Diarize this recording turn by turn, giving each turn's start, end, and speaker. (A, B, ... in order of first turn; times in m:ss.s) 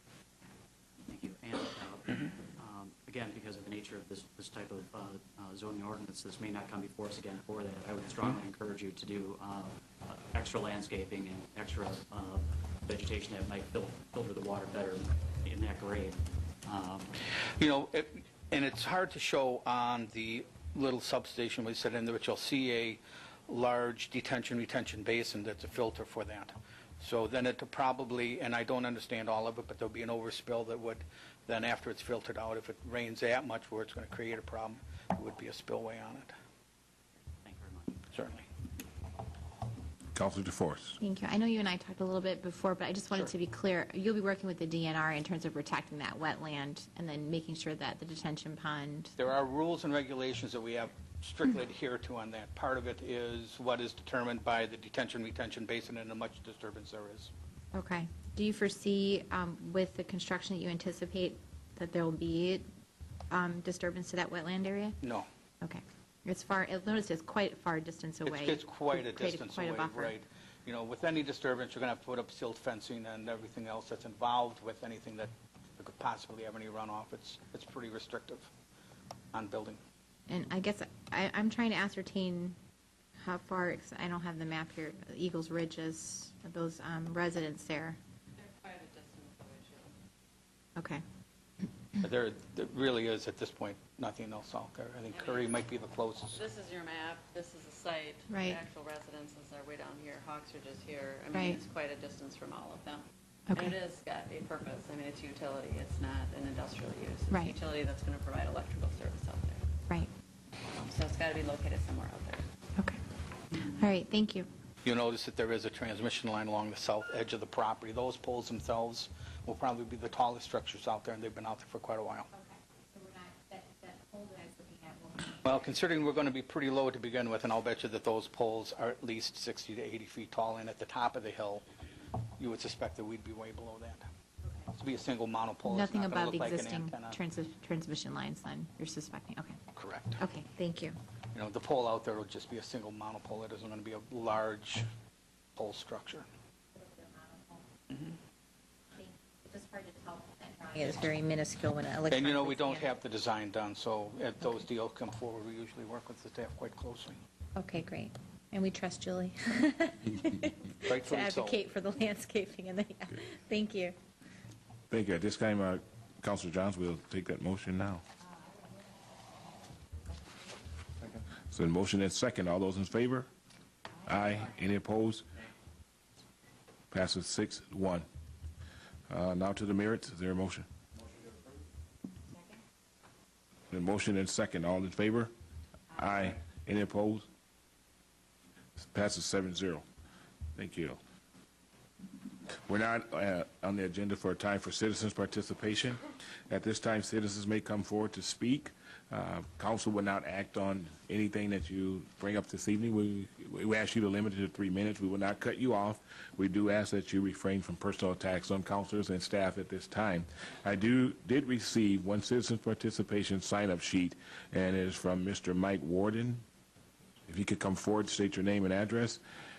0:01.0-0:17.1 A
0:17.6-0:36.3 B
0:37.4-0:38.4 A
0:38.1-0:38.4 B
0:40.1-0:41.0 C
0:41.0-0:49.1 D
0:49.2-0:57.3 B
0:57.7-1:02.6 D
1:03.3-1:05.0 D
1:05.0-1:05.3 B
1:05.6-1:10.1 D
1:08.2-1:18.5 B
1:19.3-1:19.8 B
1:20.3-1:22.6 D
1:23.2-1:28.0 D
1:28.4-1:29.9 E
1:30.8-1:31.0 D
1:32.0-1:36.4 B
1:35.1-1:35.5 E
1:36.3-1:49.6 E
1:38.3-1:38.6 D
1:41.3-1:41.6 D
1:43.5-1:43.7 D
1:50.7-1:52.4 E
1:53.5-1:54.5 D
1:54.8-2:02.3 B
2:02.3-2:05.4 D
2:05.4-2:11.6 B
2:12.4-2:14.1 B
2:14.7-2:17.2 B
2:15.6-2:19.6 D
2:19.7-2:20.2 B
2:20.2-2:21.0 D
2:21.3-2:24.8 B
2:25.6-2:26.2 B
2:26.8-2:27.6 D
2:29.0-2:32.9 D
2:32.1-2:37.2 B
2:37.6-2:44.0 D
2:40.9-2:41.6 B
2:44.9-2:48.0 C
2:51.5-2:53.3 C
2:54.0-2:55.2 C
2:56.9-2:58.0 C
2:59.1-3:00.7 C
3:03.7-3:05.3 C
3:05.9-3:07.3 C
3:08.8-3:09.8 C
3:10.6-3:11.0 C
3:12.5-3:36.4 C
3:37.3-3:39.2 C